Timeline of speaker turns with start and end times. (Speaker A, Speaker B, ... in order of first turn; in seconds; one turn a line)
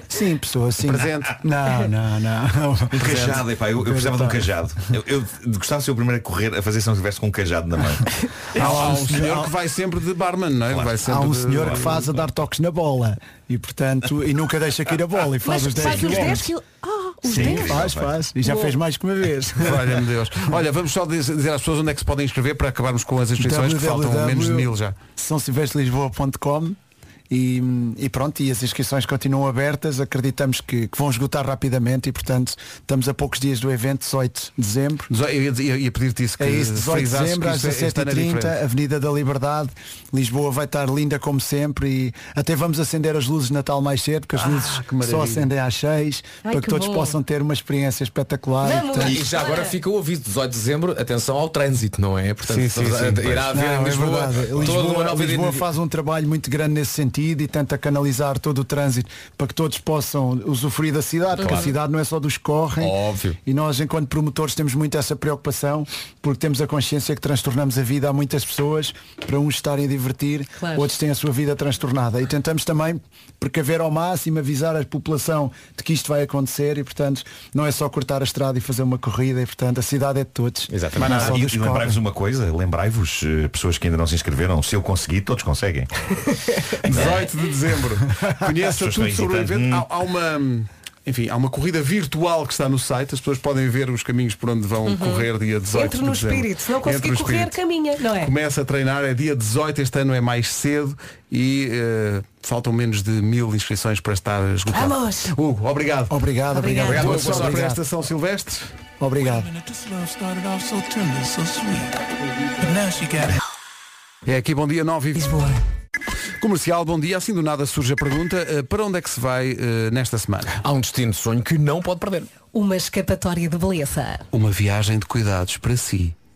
Speaker A: 0.1-4.5
Speaker B: 0.8-1.4
Speaker C: 2.9-9.1
Speaker B: 3.0-3.4
Speaker B: 8.6-12.1
Speaker A: 8.6-9.5
Speaker C: 10.7-12.0
Speaker A: 11.1-16.5
Speaker D: 15.4-17.9
Speaker C: 15.8-16.4
Speaker C: 17.2-18.2
Speaker A: 17.3-20.0
Speaker D: 18.4-18.8
Speaker B: 19.6-24.9
Speaker A: 23.4-26.8
Speaker A: 27.3-35.1
Speaker B: 35.1-38.6
Speaker A: 36.4-49.1
Speaker B: 44.5-45.5
Speaker D: 46.4-47.2
Speaker D: 48.6-49.8
Speaker E: 49.0-55.7
Speaker B: 52.5-53.4
Speaker A: 53.5-82.0
Speaker C: 54.5-54.8
Speaker E: 61.4-61.7
Speaker D: 61.4-61.7
Speaker E: 62.8-63.4
Speaker D: 70.6-70.9
Speaker E: 80.7-81.2
Speaker B: 81.0-81.4
Speaker C: 81.0-86.1
Speaker C: 86.8-87.2
Speaker B: 86.8-97.6
Speaker C: 88.7-89.9
Speaker D: 94.9-98.3
Speaker B: 98.2-106.2
Speaker D: 104.7-105.3
Speaker A: 106.1-107.8
Speaker D: 106.5-107.1
Speaker E: 106.8-107.7
Speaker B: 106.9-108.7
Speaker A: 109.0-109.5
Speaker B: 110.3-111.8
Speaker B: 112.8-113.2
Speaker B: 114.3-115.5
Speaker B: 116.4-120.6
Speaker E: 120.6-122.3
Speaker D: 122.5-124.2
Speaker B: 124.3-126.2